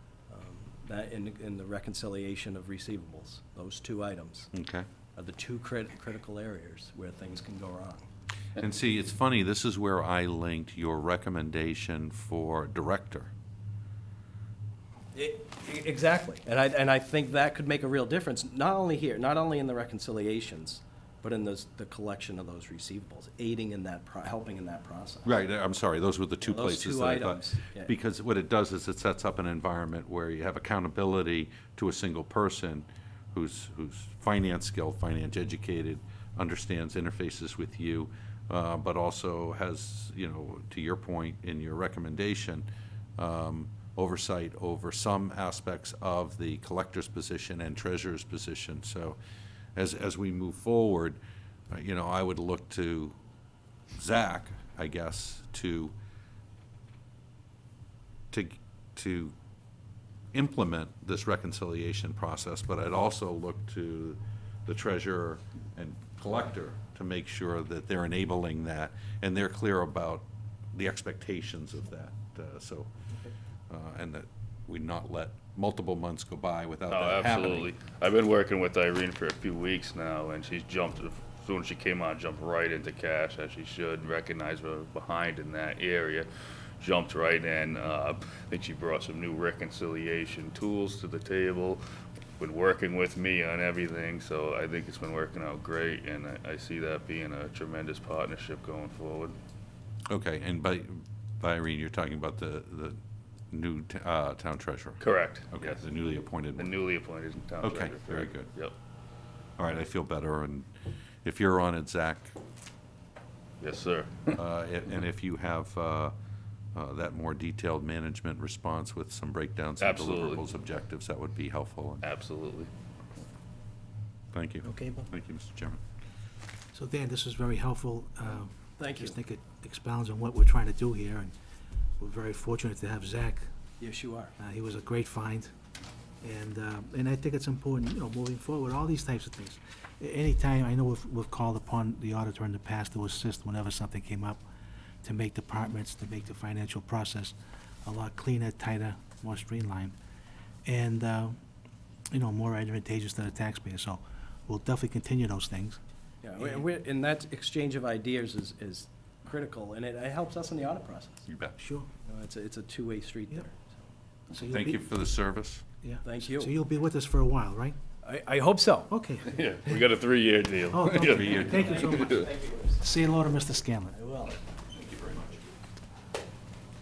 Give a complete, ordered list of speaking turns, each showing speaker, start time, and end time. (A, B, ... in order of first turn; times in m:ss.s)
0:00.3-0:04.5 A
0:04.5-0:04.9 B
0:05.2-0:08.1 A
0:08.6-0:13.3 B
0:15.1-0:25.4 A
0:25.2-0:42.7 B
0:26.4-0:27.9 A
0:43.2-0:49.2 B
0:49.8-0:51.2 B
0:51.7-0:53.2 B
0:54.0-0:55.9 B
0:58.3-0:59.4 B
1:00.3-1:12.9 B
1:13.7-1:17.7 B
1:16.9-1:26.3 C
1:26.8-1:31.8 C
1:32.4-1:39.4 C
1:40.1-1:43.0 B
1:43.5-1:46.7 B
1:45.0-1:45.9 C
1:46.6-1:48.7 C
1:47.6-1:48.5 B
1:49.6-1:50.7 B
1:51.2-1:52.4 B
1:53.6-1:54.4 C
1:54.4-1:56.1 B
1:56.8-2:02.0 B
1:59.8-2:00.4 C
2:02.0-2:02.7 C
2:04.3-2:05.8 B
2:04.6-2:05.1 D
2:06.7-2:11.3 D
2:08.8-2:09.2 A
2:12.0-2:13.4 D
2:13.8-2:14.3 A
2:14.4-2:15.5 D
2:16.2-2:24.4 D
2:25.0-2:30.0 D
2:30.6-2:31.4 D
2:32.1-2:35.8 D
2:36.2-2:41.3 A
2:41.3-2:41.6 B
2:41.6-2:41.9 D
2:42.0-2:43.8 A
2:44.3-2:44.8 D
2:44.3-2:45.6 B
2:45.8-2:47.8 D
2:46.0-2:46.5 A
2:48.0-2:48.9 A
2:48.9-2:49.4 D
2:49.2-2:52.3 C
2:50.7-2:52.2 D
2:51.0-2:52.3 B
2:51.6-2:52.8 A
2:52.8-2:54.0 D
2:53.9-2:54.4 A
2:54.7-2:55.4 B